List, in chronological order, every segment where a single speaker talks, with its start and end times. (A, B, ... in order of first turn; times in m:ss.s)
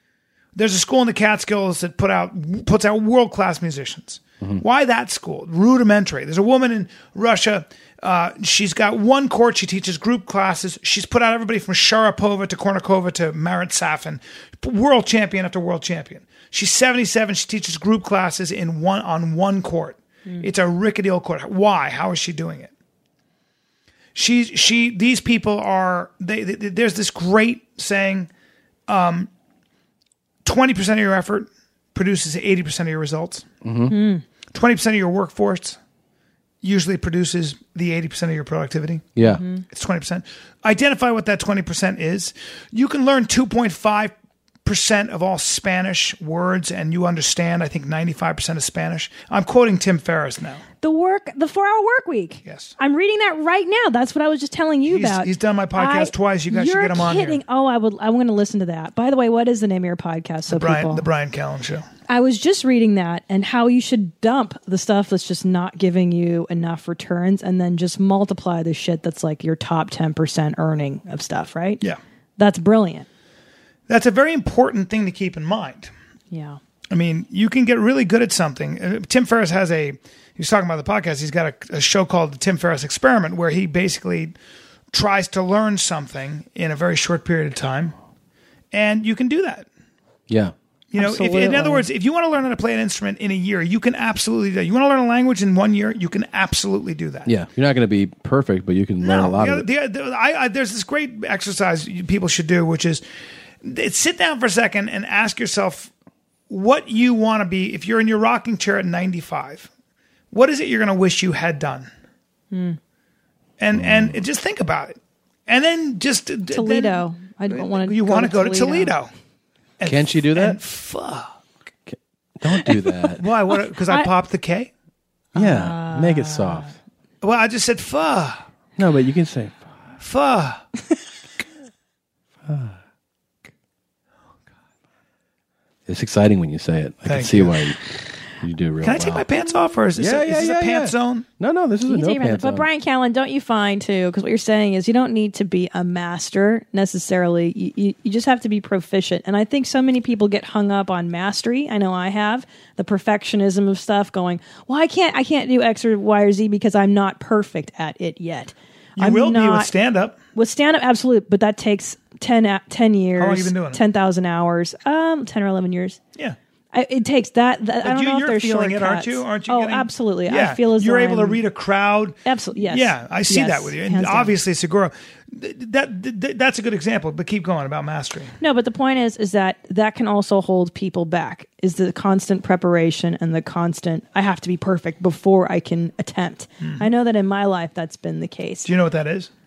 0:00.6-0:22.7 A
0:24.2-0:28.3 A
0:28.9-0:29.3 A
0:30.4-0:33.5 A
0:33.6-0:34.0 B
0:33.9-0:34.2 C
0:34.5-0:35.8 A
0:36.6-0:39.1 A
0:39.2-0:39.4 B
0:39.2-0:39.6 C
0:39.7-0:44.1 A
0:44.6-0:50.6 A
0:50.8-1:01.1 C
0:52.4-0:52.7 A
0:54.9-0:57.4 A
1:00.5-1:01.8 A
1:02.1-1:11.8 C
1:12.4-1:13.1 C
1:13.9-1:15.9 A
1:16.3-1:16.6 C
1:16.9-1:24.4 A
1:24.9-1:28.0 A
1:28.7-1:29.7 A
1:30.3-1:30.5 B
1:30.9-1:37.3 A
1:31.0-1:31.9 C
1:37.3-1:39.7 B
1:39.0-1:43.0 A
1:43.6-1:45.9 A
1:46.5-1:49.7 A
1:50.3-1:51.9 A
1:52.5-1:52.8 C
1:53.6-1:59.1 A
1:53.7-1:54.2 B
1:56.5-1:58.9 C
1:59.8-2:01.4 A
1:59.8-2:00.6 B
2:01.9-2:03.2 B
2:03.2-2:04.7 A
2:05.4-2:06.7 C
2:05.4-2:06.7 B
2:07.2-2:08.4 A
2:08.8-2:09.7 B
2:10.0-2:10.7 A
2:12.4-2:12.8 B
2:15.9-2:17.8 B
2:17.1-2:17.7 A
2:18.4-2:19.2 B
2:18.8-2:21.3 A
2:20.0-2:22.7 B
2:21.9-2:39.7 C
2:39.0-2:40.2 A
2:40.4-2:46.0 C
2:43.2-2:43.8 A
2:46.7-2:51.4 C
2:47.8-2:58.3 A
2:52.2-2:54.3 C
2:58.4-3:08.7 C
3:06.6-3:06.9 A
3:08.6-3:09.3 A